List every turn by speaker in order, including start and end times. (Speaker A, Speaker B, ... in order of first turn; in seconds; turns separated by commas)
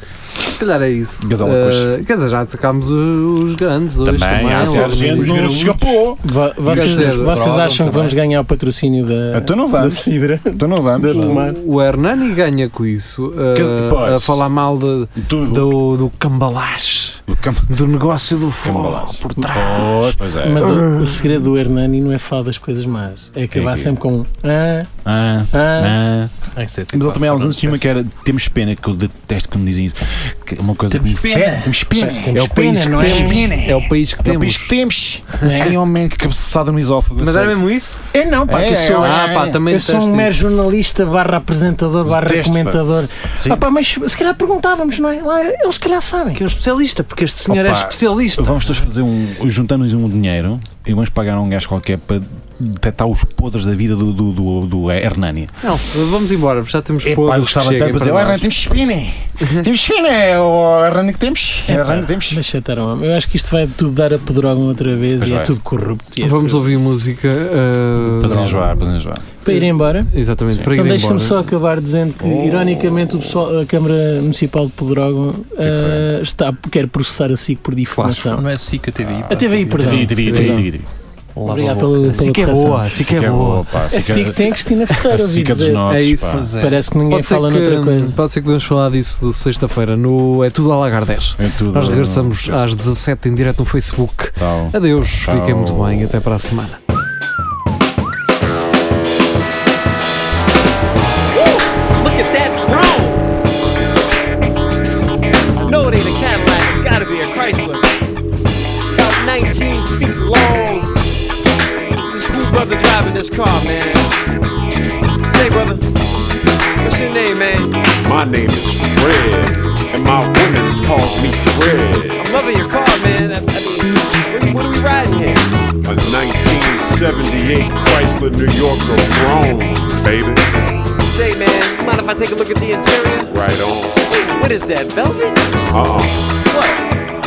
Speaker A: 0.5-6.0, Speaker B: 1.2-1.9, Speaker B: 4.0-7.4, Speaker C: 6.2-11.6, Speaker A: 6.7-8.2, Speaker B: 9.3-11.3, Speaker A: 11.1-21.3, Speaker B: 13.5-14.4, Speaker B: 15.2-15.8, Speaker B: 17.3-17.8, Speaker B: 18.6-20.8, Speaker C: 19.4-24.9, Speaker B: 23.5-24.0, Speaker B: 25.0-37.6, Speaker C: 25.5-26.0, Speaker D: 26.5-27.9, Speaker D: 30.9-31.8, Speaker C: 32.0-33.5, Speaker A: 33.0-34.7, Speaker C: 35.4-35.8, Speaker A: 37.2-38.0, Speaker C: 38.1-46.4, Speaker B: 38.5-39.6, Speaker A: 39.0-40.3, Speaker B: 42.0-42.8, Speaker B: 43.4-43.6, Speaker A: 46.3-48.7, Speaker B: 47.5-55.7, Speaker A: 55.6-58.5, Speaker B: 57.0-62.4, Speaker C: 61.7-66.8, Speaker B: 65.2-65.5, Speaker A: 66.2-68.6, Speaker B: 68.0-69.3, Speaker C: 69.4-78.5, Speaker A: 69.5-71.5, Speaker B: 72.2-73.3, Speaker B: 75.6-76.1, Speaker D: 78.0-80.6, Speaker B: 79.0-80.9, Speaker C: 79.3-80.6, Speaker A: 79.9-80.7, Speaker D: 81.3-82.4, Speaker C: 81.5-82.9, Speaker A: 82.1-84.3, Speaker B: 82.8-86.5, Speaker C: 83.9-85.9, Speaker A: 85.8-86.4, Speaker D: 86.2-86.9, Speaker C: 86.5-88.2, Speaker A: 87.1-96.8, Speaker B: 91.4-92.7, Speaker B: 94.4-96.1, Speaker E: 101.3-103.3, Speaker E: 105.6-108.0, Speaker E: 108.9-110.9, Speaker E: 112.0-114.1, Speaker E: 115.2-115.9, Speaker E: 116.8-117.9, Speaker F: 117.9-122.2, Speaker E: 122.2-125.5, Speaker F: 125.8-130.5, Speaker E: 131.0-133.4, Speaker F: 133.3-134.0, Speaker E: 134.1-135.5, Speaker F: 135.7-136.3, Speaker E: 136.4-136.8